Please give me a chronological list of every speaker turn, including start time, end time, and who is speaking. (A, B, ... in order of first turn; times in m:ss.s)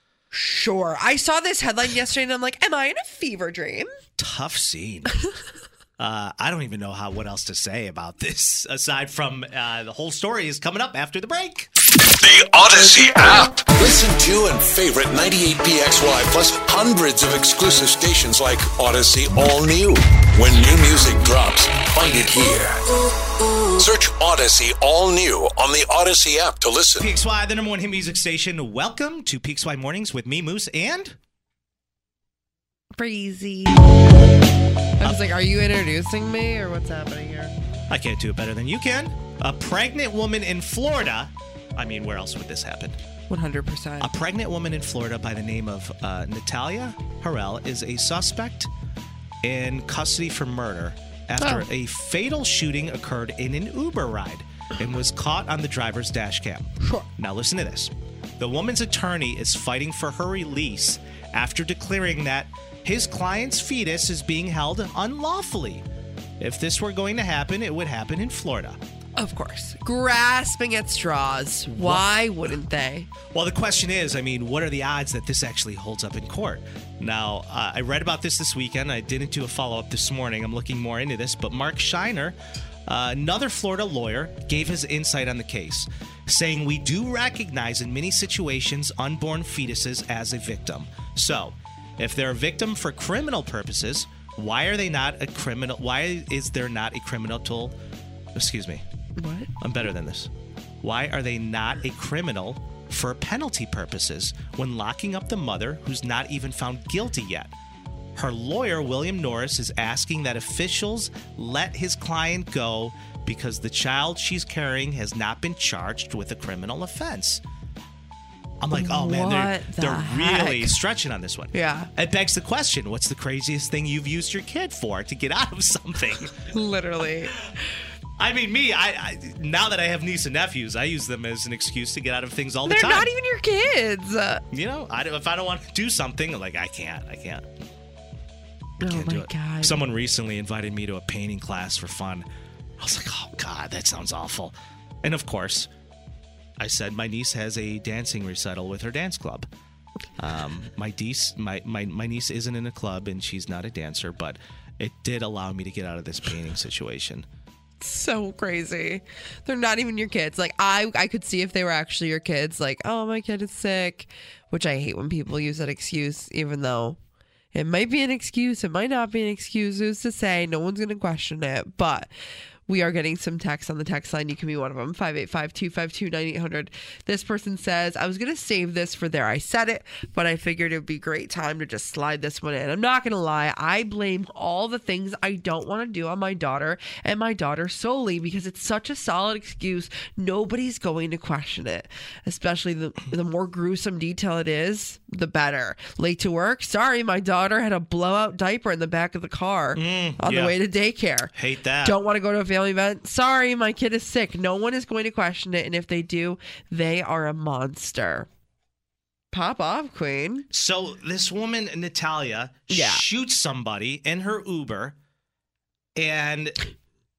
0:00.3-0:03.9 A
0:04.2-0:05.1 B
0:06.0-0:11.7 B
0:12.2-0:22.8 C
0:23.8-0:27.0 C
0:27.0-0:31.2 B
0:33.0-0:33.9 A
0:35.0-0:37.5 A
0:37.9-0:43.0 B
0:43.3-0:44.1 A
0:44.0-0:48.7 B
0:49.4-1:05.8 B
0:51.4-0:51.6 A
1:06.4-1:08.8 B
1:09.2-1:13.1 A
1:11.7-1:12.0 B
1:13.3-1:22.4 B
1:22.9-1:37.7 B
1:38.3-1:38.8 B
1:39.2-1:39.5 A
1:39.6-1:40.3 B
1:40.8-1:47.5 B
1:48.2-1:57.4 B
1:58.6-2:06.5 B
1:58.7-2:00.7 A
2:01.5-2:01.9 A
2:06.5-2:07.4 A
2:08.2-2:13.1 B
2:12.6-2:14.4 A
2:14.5-2:17.5 B
2:18.8-2:19.8 A
2:18.8-2:22.2 B
2:22.8-2:25.7 B
2:26.6-2:29.5 B
2:30.2-2:37.2 B
2:37.8-2:47.0 A
2:47.5-2:52.1 A
2:52.7-3:21.3 A
3:19.7-3:20.6 B
3:21.3-3:22.0 B
3:21.8-3:28.3 A
3:29.3-3:30.5 A
3:30.5-3:35.0 B
3:32.7-3:33.0 A
3:36.0-3:36.6 B